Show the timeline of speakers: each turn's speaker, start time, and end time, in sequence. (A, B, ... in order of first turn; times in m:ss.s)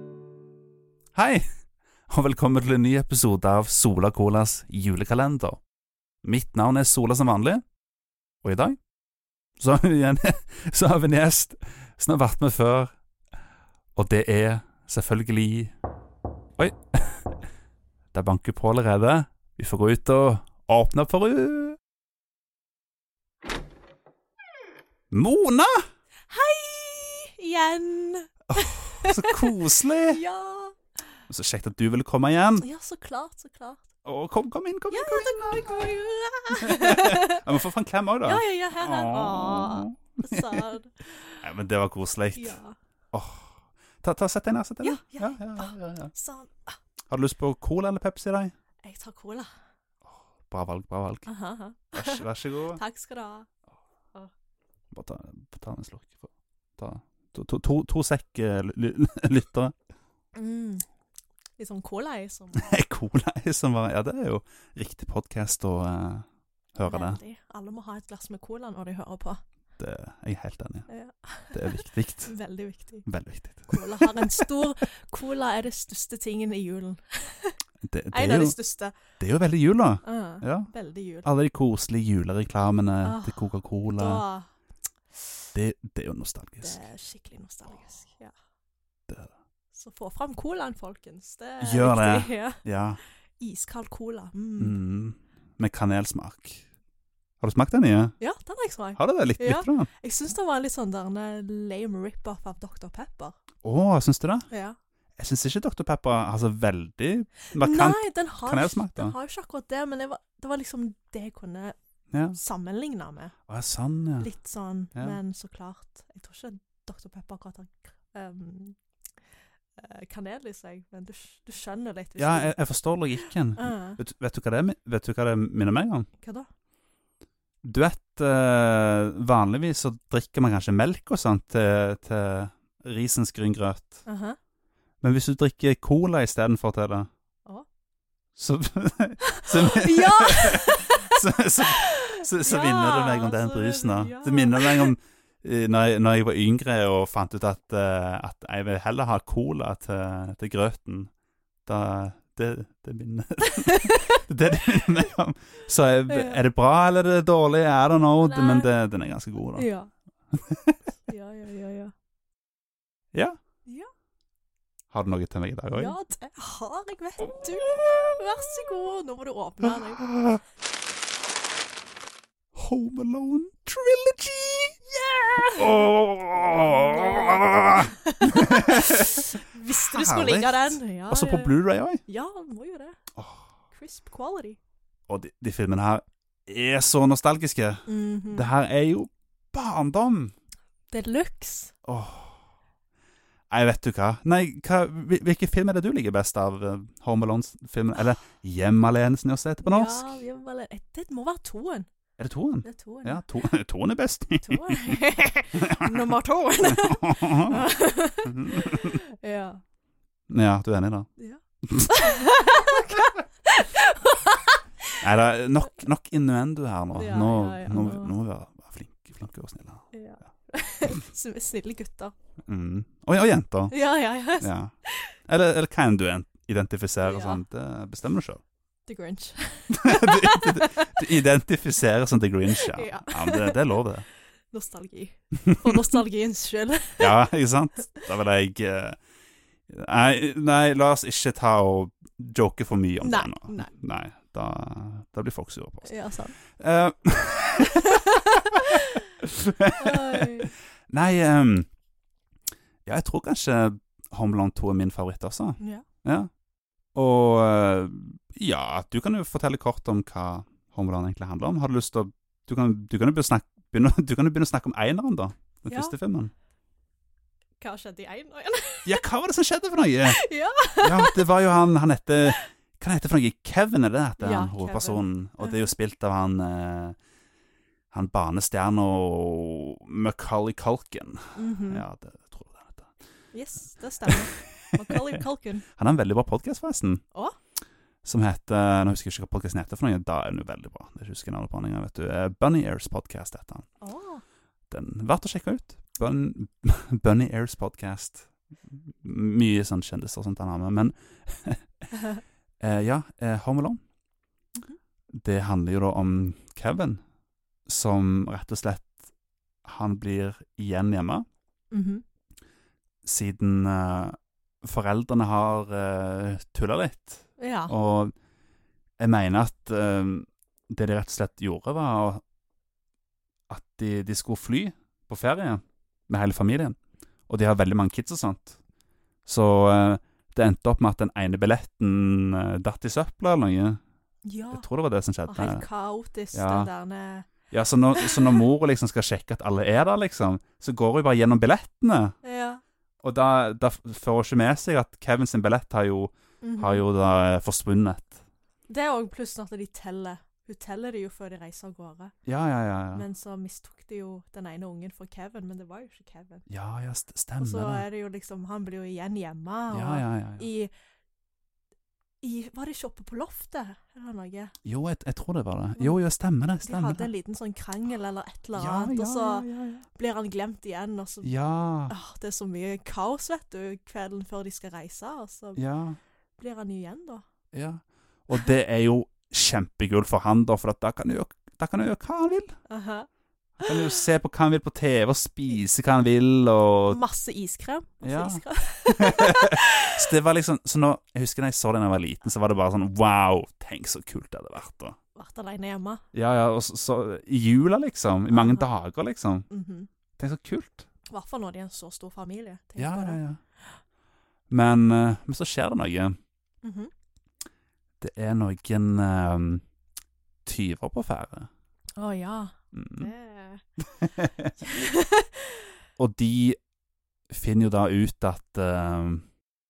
0:01.1-0:01.5 A
0:02.1-0:05.6 A
0:06.2-0:07.6 A
0:08.4-0:08.8 A
0:09.6-0:12.9 A
0:14.0-0:15.7 A
0:16.6-0:17.3 A
0:18.1-0:21.8 A
0:25.1-0:25.9 A
0:26.3-0:30.8 B
0:28.5-0:30.2 A
0:31.3-0:32.7 A
0:32.6-0:33.9 B
0:34.0-0:35.9 A
0:34.9-0:37.4 B
0:36.5-0:40.6 A
0:38.3-0:41.5 B
0:41.4-0:42.6 A
0:42.3-0:42.8 B
0:43.1-0:46.1 A
0:44.8-0:46.8 B
0:47.1-0:48.5 A
0:48.8-0:49.5 B
0:50.1-0:51.3 A
0:51.3-0:53.5 B
0:51.9-0:52.8 A
0:54.9-0:59.7 A
1:00.4-1:00.8 B
1:01.6-1:02.7 B
1:02.5-1:07.2 A
1:06.8-1:09.4 B
1:09.8-1:10.9 A
1:10.9-1:13.1 B
1:11.5-1:12.3 A
1:13.1-1:14.6 A
1:13.7-1:17.6 B
1:17.8-1:18.6 A
1:18.1-1:19.0 B
1:19.2-1:20.7 A
1:20.0-1:21.3 B
1:21.2-1:24.2 A
1:23.0-1:24.5 B
1:25.5-1:26.8 A
1:26.6-1:28.3 B
1:29.7-1:32.6 B
1:31.6-1:33.0 A
1:33.4-1:34.8 B
1:34.6-1:36.6 A
1:37.4-1:38.2 A
1:38.2-1:43.4 B
1:39.0-1:39.9 A
1:43.6-1:44.5 A
1:44.5-1:44.8 B
1:45.2-1:49.2 A
1:47.5-1:51.8 B
1:52.1-1:52.4 A
1:52.3-1:53.4 B
1:53.5-1:54.3 A
1:54.2-1:58.8 B
1:59.8-2:02.6 B
2:02.2-2:06.1 A
2:03.6-2:04.0 B
2:06.2-2:06.5 B
2:07.6-2:14.0 A
2:14.1-2:14.4 B
2:15.0-2:17.1 A
2:18.4-2:31.1 A
2:19.2-2:24.9 B
2:31.7-2:39.7 A
2:33.4-2:34.2 B
2:36.1-2:36.4 B
2:38.2-2:38.7 B
2:39.6-2:39.9 B
2:40.3-2:40.8 A
2:41.1-2:41.9 B
2:44.9-2:46.0 A
2:45.7-2:50.1 B
2:49.6-2:50.4 A
2:52.6-3:02.0 A
2:55.4-2:55.9 B
2:56.4-3:03.0 B
3:03.2-3:03.4 A
3:03.7-3:04.6 B
3:05.1-3:10.3 A
3:07.9-3:08.5 B
3:10.9-3:11.7 B
3:11.8-3:12.4 A
3:13.5-3:20.2 A
3:19.6-3:21.9 B
3:22.2-3:25.0 A
3:22.6-3:23.2 B
3:24.4-3:29.6 B
3:25.6-3:27.7 A
3:28.2-3:29.0 A
3:30.3-3:31.1 A
3:31.2-3:35.0 B
3:31.6-3:32.2 A
3:35.0-3:39.9 A
3:36.9-3:38.1 B
3:39.9-3:42.1 B
3:42.5-3:43.8 A
3:43.7-3:45.2 B
3:44.4-3:44.7 A
3:45.3-3:48.4 A
3:47.0-3:47.4 B
3:48.9-3:51.1 B
3:49.7-3:54.1 A
3:52.5-3:53.8 B
3:54.5-3:57.2 B
3:55.5-3:55.8 A
3:57.0-3:59.0 A
3:59.7-4:11.7 A
4:03.0-4:03.7 B
4:05.8-4:06.4 B
4:07.6-4:09.1 B
4:09.8-4:10.5 B
4:12.8-4:16.3 A
4:15.6-4:15.8 B
4:17.0-4:26.3 A
4:25.7-4:26.0 B
4:27.6-4:29.0 B
4:28.8-4:30.2 A
4:30.1-4:31.2 B
4:30.8-4:37.0 A
4:34.2-4:35.7 B
4:37.9-4:42.9 A
4:41.4-4:41.8 B
4:43.3-4:45.6 B
4:44.0-4:47.0 A
4:48.0-4:53.7 A
4:53.8-4:54.2 B
4:54.7-5:01.7 A
5:02.6-5:03.8 A
5:05.1-5:07.0 A
5:07.7-5:09.0 A
5:09.6-5:11.2 A
5:11.7-5:12.0 B
5:13.0-5:18.1 A
5:17.4-5:17.7 B
5:19.0-5:22.2 A
5:23.5-5:26.8 A
5:27.3-5:28.6 A
5:29.3-5:33.8 A
5:34.2-5:34.7 B
5:34.5-5:35.6 A
5:35.3-5:37.3 B
5:36.3-5:36.7 A
5:37.5-5:42.2 A
5:37.9-5:38.4 B
5:42.2-5:42.6 B
5:43.0-5:48.2 A
5:46.4-5:46.8 B
5:48.7-5:52.1 B
5:52.2-5:53.0 A
5:52.9-5:56.4 B
5:56.5-5:57.8 A
5:57.4-6:00.7 B
5:59.7-6:00.5 A
6:02.2-6:04.6 B
6:04.6-6:07.1 A
6:06.6-6:11.3 B
6:08.6-6:09.8 A
6:11.2-6:11.9 A
6:11.9-6:15.6 B
6:15.6-6:16.0 A
6:16.4-6:17.2 B
6:17.5-6:22.6 A
6:22.7-6:23.1 B
6:23.6-6:27.0 A
6:23.6-6:24.0 B
6:26.9-6:30.1 B
6:28.0-6:35.0 A
6:35.2-6:36.0 B
6:36.1-6:39.5 A
6:38.3-6:38.7 B
6:39.5-6:39.9 B
6:40.2-6:40.9 A
6:41.1-6:43.7 B
6:42.8-6:43.4 A
6:44.5-6:46.2 A
6:46.6-6:46.9 B
6:48.0-6:49.6 A
6:50.4-6:51.5 A
6:52.0-6:53.6 B
6:52.7-6:53.1 A
6:54.0-6:54.5 A
6:54.6-6:55.6 B
6:56.0-6:56.6 A
6:57.3-6:59.3 A